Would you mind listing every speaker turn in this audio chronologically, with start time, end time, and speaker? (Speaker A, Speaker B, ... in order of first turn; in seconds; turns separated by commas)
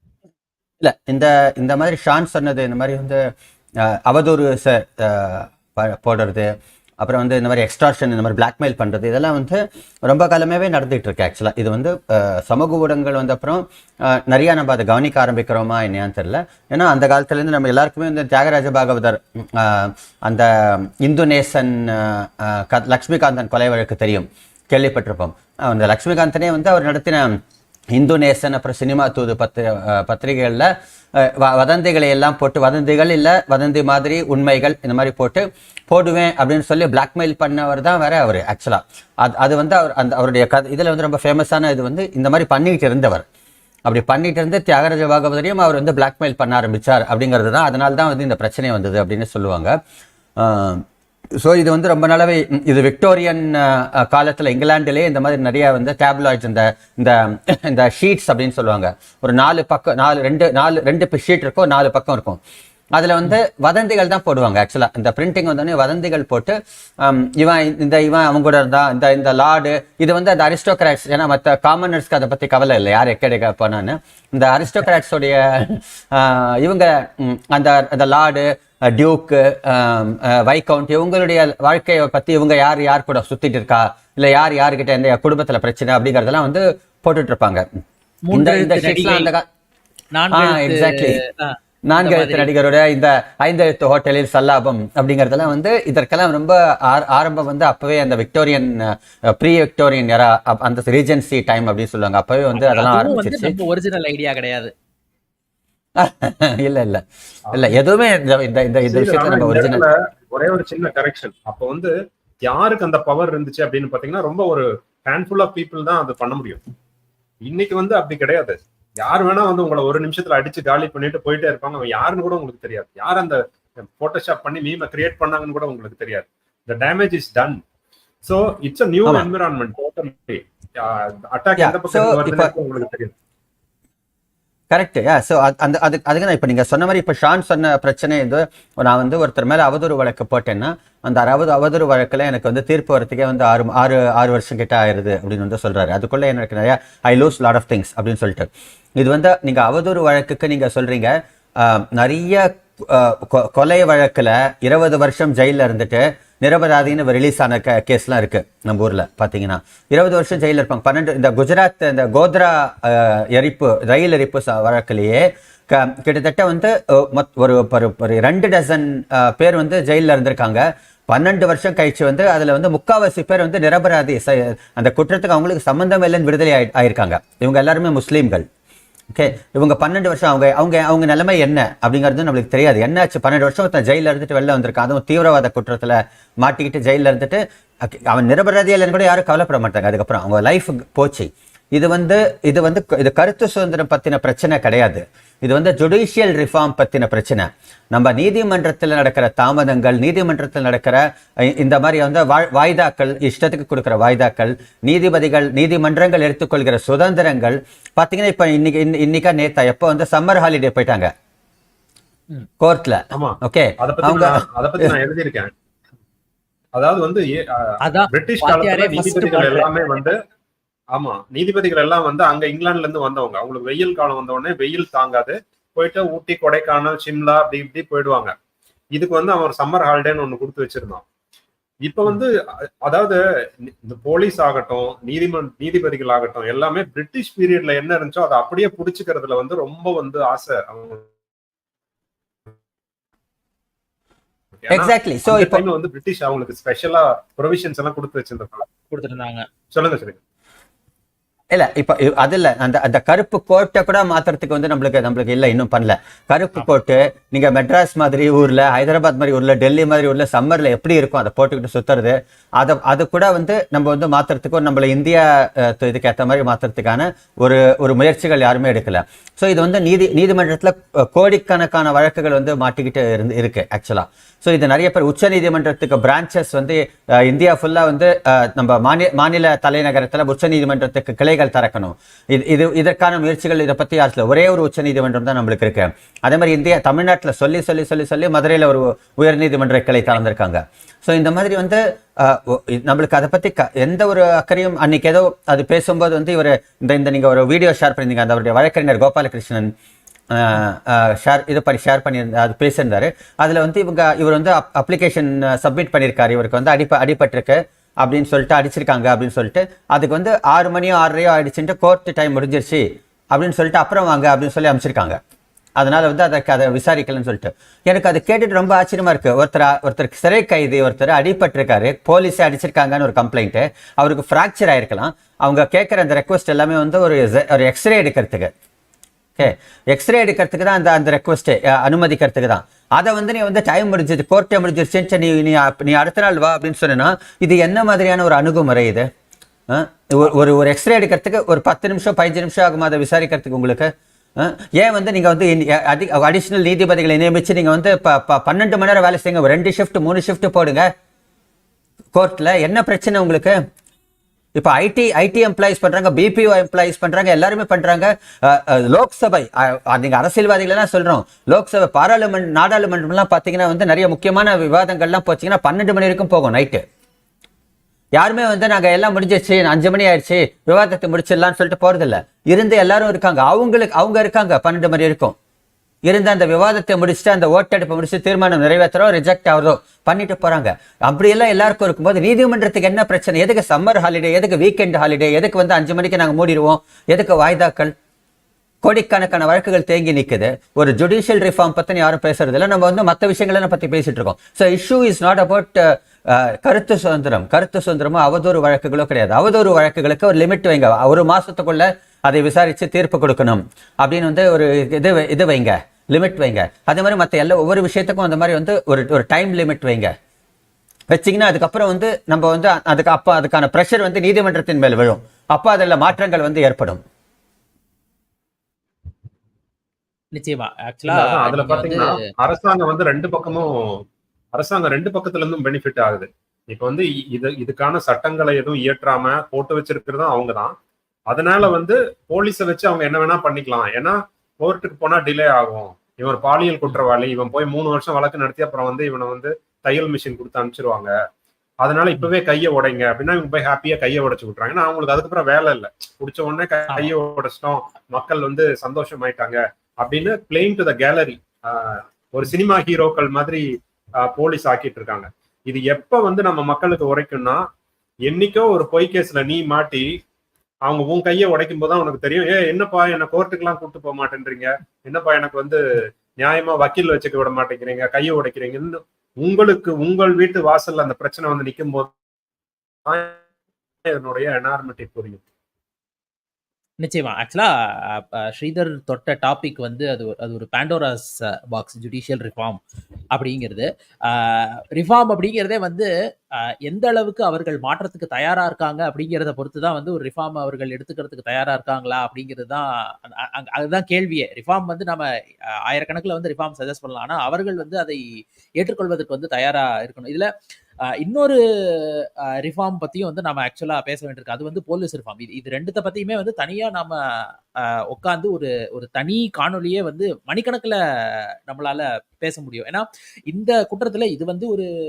Speaker A: 0.8-27.4, Speaker A: 27.9-43.2, Speaker A: 43.9-49.8, Speaker A: 50.4-50.8, Speaker A: 51.3-62.4, Speaker A: 62.9-87.7, Speaker B: 88.3-89.3, Speaker A: 88.3-89.4, Speaker B: 90.1-92.5, Speaker A: 90.3-91.2, Speaker A: 91.8-103.5, Speaker B: 102.5-104.7, Speaker A: 106.0-109.8, Speaker C: 108.9-111.9, Speaker C: 112.4-116.6, Speaker C: 117.4-127.6, Speaker C: 128.2-133.1, Speaker A: 131.6-132.5, Speaker A: 134.7-178.5, Speaker A: 179.1-211.1, Speaker A: 212.6-214.9, Speaker C: 213.1-215.5, Speaker C: 216.7-220.2, Speaker B: 217.8-219.7, Speaker C: 220.9-228.3, Speaker C: 228.9-231.0, Speaker C: 231.8-241.1, Speaker C: 244.6-248.7, Speaker A: 244.7-245.6, Speaker B: 248.9-249.5, Speaker C: 249.7-250.2, Speaker A: 251.5-299.7, Speaker A: 300.3-315.2, Speaker A: 315.8-328.5, Speaker A: 329.4-339.1, Speaker A: 339.7-350.9, Speaker A: 352.1-353.6, Speaker A: 354.6-366.8, Speaker A: 368.2-375.4, Speaker A: 376.1-387.9, Speaker A: 388.8-410.1, Speaker A: 411.1-417.0, Speaker B: 420.3-422.1, Speaker C: 421.1-430.7, Speaker C: 431.3-441.1, Speaker C: 441.8-453.6, Speaker C: 454.2-457.6, Speaker C: 458.3-460.1, Speaker C: 460.9-472.1, Speaker C: 473.1-473.4, Speaker C: 474.0-475.4, Speaker B: 477.0-482.8, Speaker B: 483.3-486.1, Speaker B: 486.9-495.3, Speaker B: 495.9-498.2, Speaker B: 498.8-500.5, Speaker B: 501.2-514.9